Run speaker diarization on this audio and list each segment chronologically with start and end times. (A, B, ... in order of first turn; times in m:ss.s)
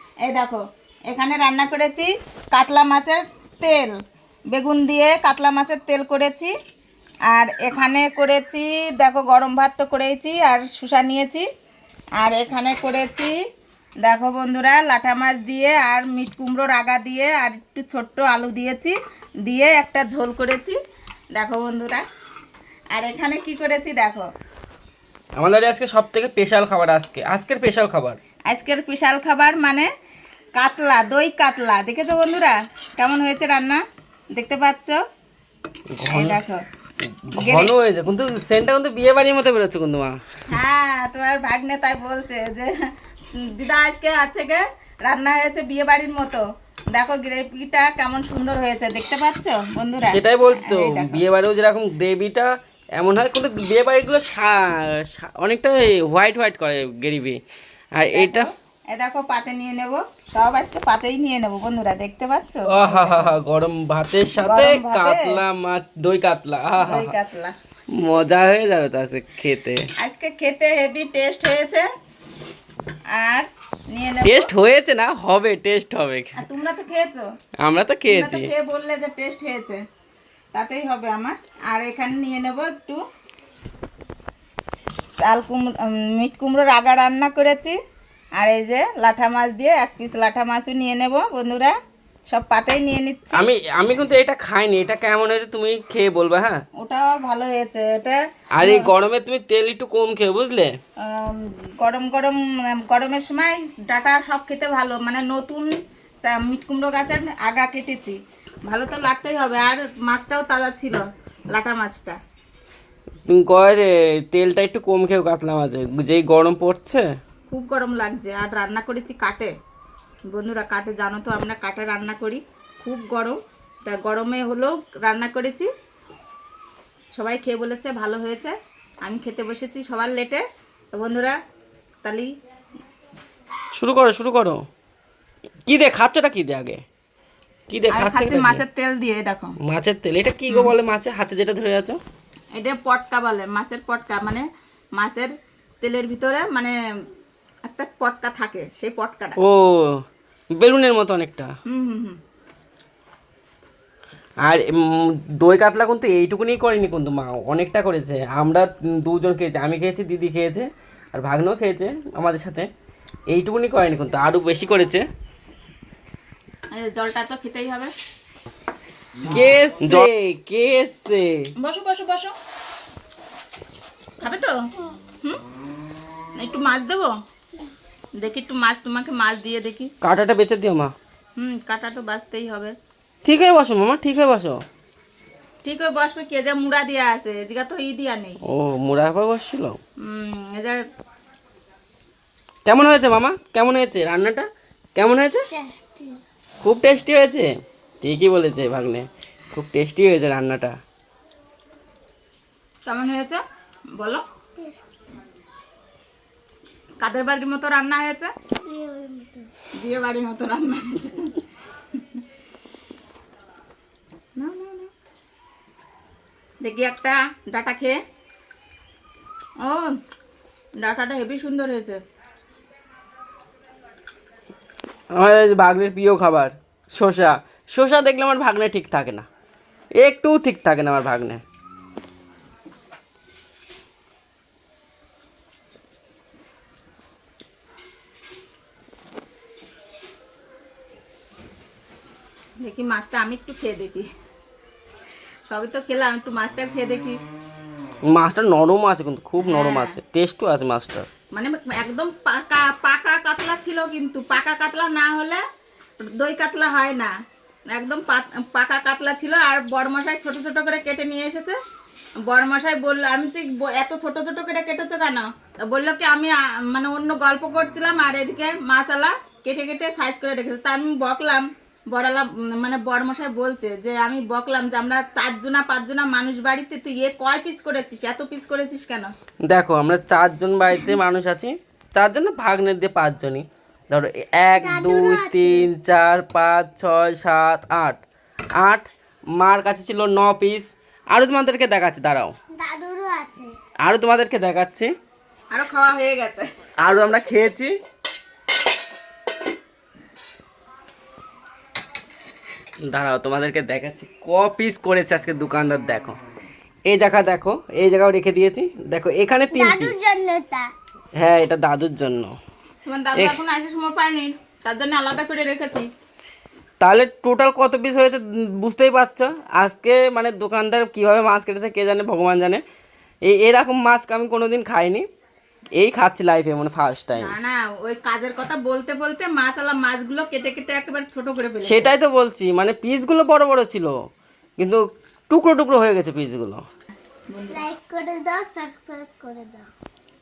0:00.3-0:04.0 A
0:04.5-0:06.5 A
0:07.3-0:11.5 A
0:12.2-0:13.4 A
0:14.0-0:20.8 A
0:21.4-0:22.0 A
0:22.9-0:24.3 A
0:25.4-0:28.2 B
0:28.5-0:29.9 A
0:30.6-0:33.8 A
0:34.4-0:35.0 A
0:36.0-0:36.4 B
0:36.1-0:36.6 A
0:37.0-0:40.2 B
0:37.4-0:37.7 A
0:40.5-0:51.2 A
0:50.1-0:57.4 B
0:58.0-0:58.5 B
0:58.1-1:03.3 A
1:02.7-1:07.1 B
1:04.4-1:05.4 A
1:06.8-1:07.5 A
1:08.0-1:09.8 B
1:10.0-1:11.9 A
1:13.1-1:14.5 A
1:14.2-1:16.4 B
1:16.4-1:17.2 A
1:17.6-1:18.5 B
1:18.1-1:19.8 A
1:20.5-1:23.0 A
1:25.2-1:27.8 A
1:28.4-1:31.7 A
1:32.3-1:33.5 A
1:33.3-1:36.6 B
1:36.8-1:38.9 A
1:38.6-1:40.8 B
1:41.0-1:52.2 A
1:53.3-1:57.1 B
1:57.5-1:59.5 A
2:00.3-2:05.7 A
2:07.2-2:10.4 A
2:11.0-2:11.4 A
2:12.0-2:12.3 A
2:13.8-2:14.6 B
2:15.7-2:16.8 B
2:17.7-2:18.6 B
2:17.9-2:19.6 A
2:19.6-2:22.0 B
2:20.5-2:20.7 A
2:22.6-2:24.5 A
2:25.0-2:26.8 A
2:27.7-2:29.4 A
2:29.4-2:30.0 B
2:30.6-2:31.5 B
2:31.7-2:32.2 A
2:34.4-2:42.7 B
2:43.3-2:45.0 B
2:46.7-2:47.9 A
2:49.2-2:51.5 B
2:51.6-2:52.3 A
2:54.2-2:54.5 A
2:56.4-2:57.1 A
2:58.2-2:59.9 A
3:00.0-3:00.9 B
3:01.4-3:02.7 A
3:03.2-3:04.6 B
3:05.6-3:08.4 A
3:08.5-3:09.8 B
3:10.0-3:10.8 A
3:12.7-3:15.4 B
3:15.5-3:16.2 C
3:16.6-3:17.5 B
3:18.0-3:20.8 B
3:22.9-3:23.4 A
3:24.0-3:24.2 A
3:24.6-3:24.8 C
3:27.0-3:28.3 A
3:28.6-3:29.5 C
3:29.8-3:31.4 A
3:31.9-3:32.2 A
3:34.4-3:34.9 A
3:36.6-3:38.0 A
3:39.6-3:40.0 A
3:40.8-3:42.0 A
3:45.2-3:49.3 B
3:50.0-3:51.4 B
4:02.6-4:04.1 A
4:05.5-4:07.2 A
4:08.1-4:11.1 B
4:09.4-4:10.0 A
4:11.3-4:15.4 A
4:16.0-4:17.1 A
4:17.7-4:21.6 A
4:22.3-4:39.1 A
4:39.5-4:48.0 B
4:44.6-4:45.7 C
4:48.6-4:52.3 B
4:52.6-4:53.5 C
4:53.8-4:54.9 B
4:55.5-4:56.5 A
4:56.8-4:57.7 B
5:02.9-5:06.2 B
5:06.9-5:10.0 B
5:09.5-5:10.7 C
5:11.2-5:12.4 B
5:12.9-5:15.9 A
5:13.2-5:13.4 B
5:16.8-5:22.6 B
5:23.3-5:25.0 B
5:25.8-5:27.3 B
5:27.2-5:31.9 A
5:31.6-5:34.0 B
5:34.6-5:36.6 B
5:37.3-5:37.6 A
5:37.5-5:39.7 C